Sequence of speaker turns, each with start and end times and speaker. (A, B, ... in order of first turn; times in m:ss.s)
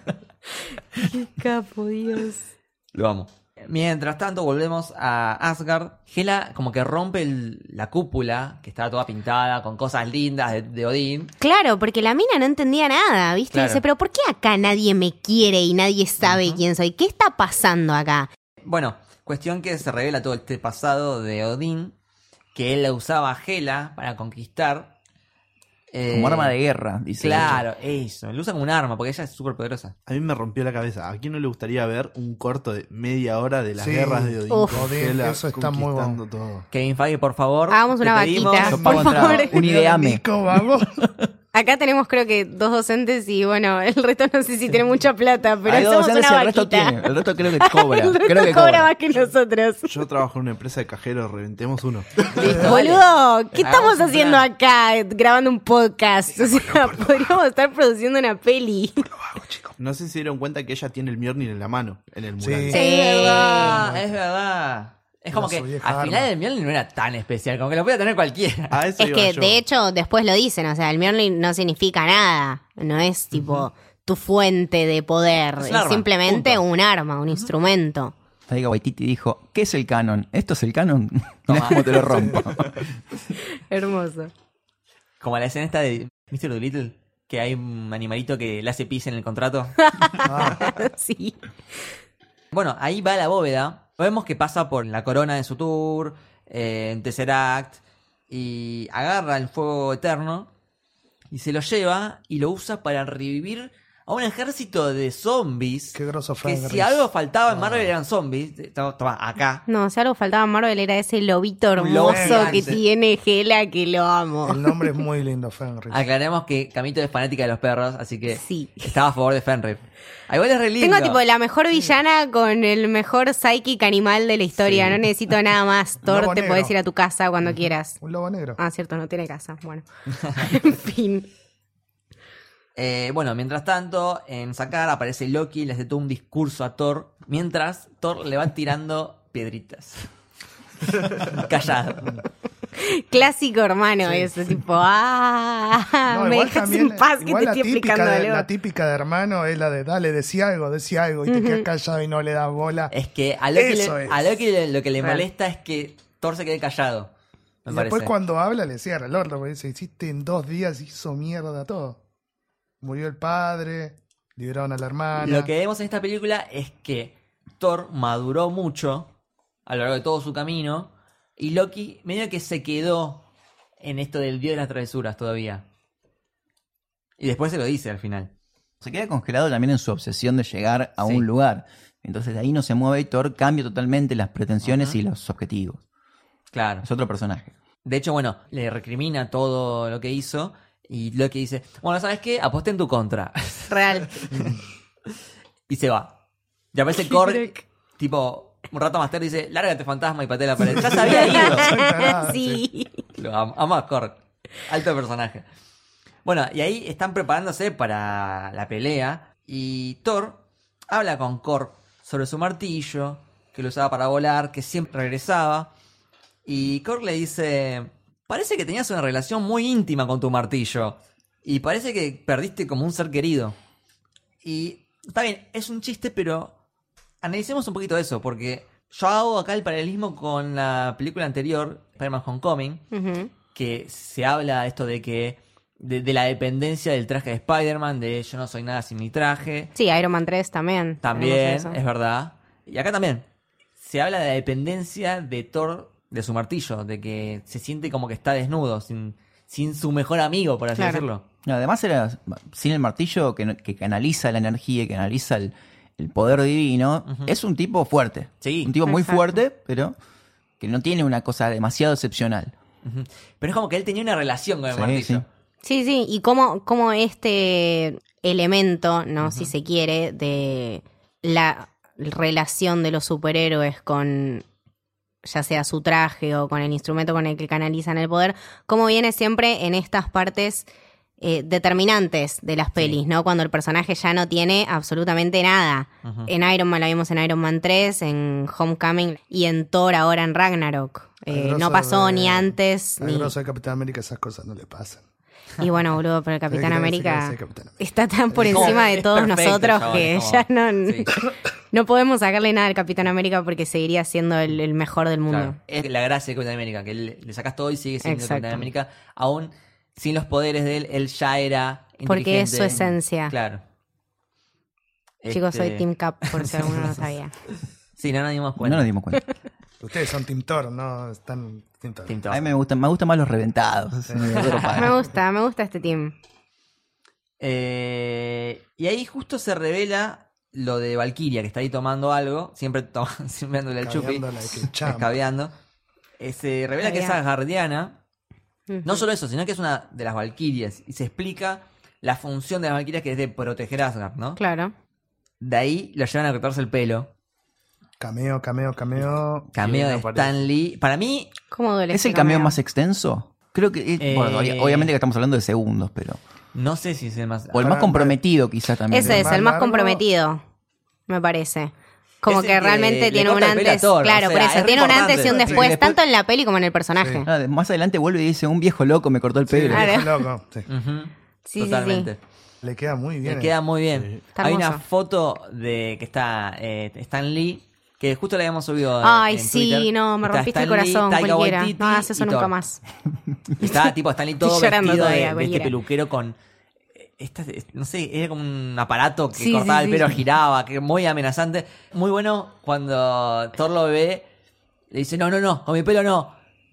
0:00.9-0:02.4 A
0:02.9-0:11.3 B
0:11.4-0:18.3 A
0:13.5-0:13.8 B
0:16.2-0:16.6 B
0:18.6-0:22.0 B
0:22.6-0:24.9 B
0:25.9-0:26.5 B
0:26.1-0:27.6 C
0:27.2-0:30.0 B
0:30.1-0:36.5 D
0:33.8-0:36.6 E
0:34.5-0:34.8 A
0:36.7-0:38.8 B
0:37.7-0:39.6 A
0:38.5-0:41.1 E
0:38.6-0:40.2 C
0:41.5-0:47.0 A
0:45.6-0:48.9 C
0:47.6-0:49.9 A
0:49.9-0:52.6 D
0:52.3-0:53.0 B
0:52.4-0:59.1 A
0:52.4-0:52.7 E
0:53.6-0:54.5 B
0:56.5-0:57.0 E
0:59.1-0:59.8 E
0:59.8-1:02.8 D
1:02.4-1:04.1 E
1:02.7-1:03.9 A
1:02.7-1:08.8 B
1:05.3-1:06.3 E
1:08.7-1:09.6 D
1:09.0-1:18.1 A
1:13.3-1:13.7 B
1:15.6-1:16.6 B
1:18.5-1:22.9 C
1:21.5-1:22.5 B
1:23.6-1:24.3 A
1:25.2-1:29.8 B
1:29.8-1:31.4 A
1:30.2-1:30.8 E
1:32.5-1:40.5 B
1:41.3-1:49.6 B
1:46.0-1:47.9 E
1:49.7-1:54.7 A
1:51.8-1:52.8 B
1:52.0-1:52.7 E
1:54.5-1:56.0 E
1:55.9-2:01.2 B
1:58.3-1:58.9 A
2:00.8-2:08.0 A
2:04.6-2:05.0 B
2:06.0-2:06.7 E
2:08.0-2:08.6 E
2:08.6-2:11.3 A
2:12.8-2:20.1 B
2:21.1-2:22.1 B
2:22.8-2:28.5 A
2:26.1-2:32.9 E
2:31.3-2:31.6 A
2:32.9-2:37.1 B
2:33.6-2:34.4 E
2:37.7-2:38.1 B
2:37.7-2:42.0 E
2:42.8-2:45.5 E
2:45.1-2:49.1 B
2:49.7-2:53.3 B
2:53.8-2:55.6 B
2:57.2-2:58.3 B
2:58.8-3:05.8 C
3:04.6-3:05.0 B
3:06.5-3:06.8 B
3:06.8-3:07.5 C
3:07.8-3:14.2 B
3:13.7-3:14.2 A
3:14.3-3:14.6 E
3:15.7-3:16.2 B
3:16.7-3:21.8 B
3:17.1-3:17.6 A
3:20.7-3:22.6 E
3:21.0-3:23.0 A
3:23.2-3:25.4 B
3:26.2-3:35.7 B
3:36.4-3:43.6 B
3:44.4-3:46.5 B
3:47.2-3:52.8 B
3:52.9-3:53.3 A
3:53.5-3:59.7 B
3:59.8-4:01.8 A
4:01.0-4:03.2 B
4:03.8-4:11.2 B
4:10.8-4:11.0 A
4:11.4-4:20.0 C
4:17.1-4:17.3 B
4:18.4-4:18.7 B
4:18.8-4:19.4 A
4:20.6-4:22.5 C
4:22.8-4:25.3 B
4:24.7-4:25.2 C
4:25.6-4:34.4 A
4:29.2-4:29.5 B
4:35.2-4:40.7 A
4:41.2-4:53.3 A
4:46.0-4:46.3 B
4:51.3-4:55.0 E
4:55.6-5:05.6 A
4:56.5-4:57.8 E
4:58.3-4:58.8 E
4:58.5-5:01.1 B
5:05.3-5:13.6 B
5:08.0-5:08.7 A
5:12.1-5:13.3 A
5:15.2-5:17.0 B
5:15.3-5:17.3 A
5:18.0-5:18.9 B
5:18.6-5:19.2 C
5:19.8-5:22.2 E
5:22.1-5:22.4 B
5:22.3-5:25.0 C
5:24.1-5:24.4 E
5:24.2-5:24.8 B
5:24.8-5:26.2 A
5:27.4-5:35.5 B
5:33.8-5:35.1 E
5:36.2-5:38.0 B
5:36.8-5:37.2 A
5:38.7-5:39.0 A
5:38.8-5:44.4 B
5:44.4-5:44.7 A
5:45.4-5:47.1 B
5:48.0-5:49.5 E
5:49.6-5:51.3 B
5:49.6-5:50.4 D
5:51.5-5:52.6 A
5:51.9-5:56.2 C
5:54.0-5:54.9 B
5:56.5-5:57.7 B
5:57.5-5:59.4 C
5:57.6-5:58.2 E
5:58.9-6:00.4 A
5:59.0-6:00.0 E
6:01.1-6:07.3 A
6:02.3-6:05.9 B
6:04.8-6:05.8 E
6:07.0-6:07.2 E
6:07.2-6:10.0 C
6:09.5-6:10.7 E
6:09.7-6:10.2 A
6:10.7-6:12.2 B
6:11.5-6:12.1 A
6:12.6-6:13.5 E
6:13.2-6:22.5 B
6:13.9-6:14.2 D
6:14.4-6:14.8 A
6:19.0-6:22.8 A
6:23.6-6:26.4 B
6:24.4-6:25.8 A
6:27.0-6:34.2 B
6:29.4-6:30.2 A
6:34.9-6:36.3 B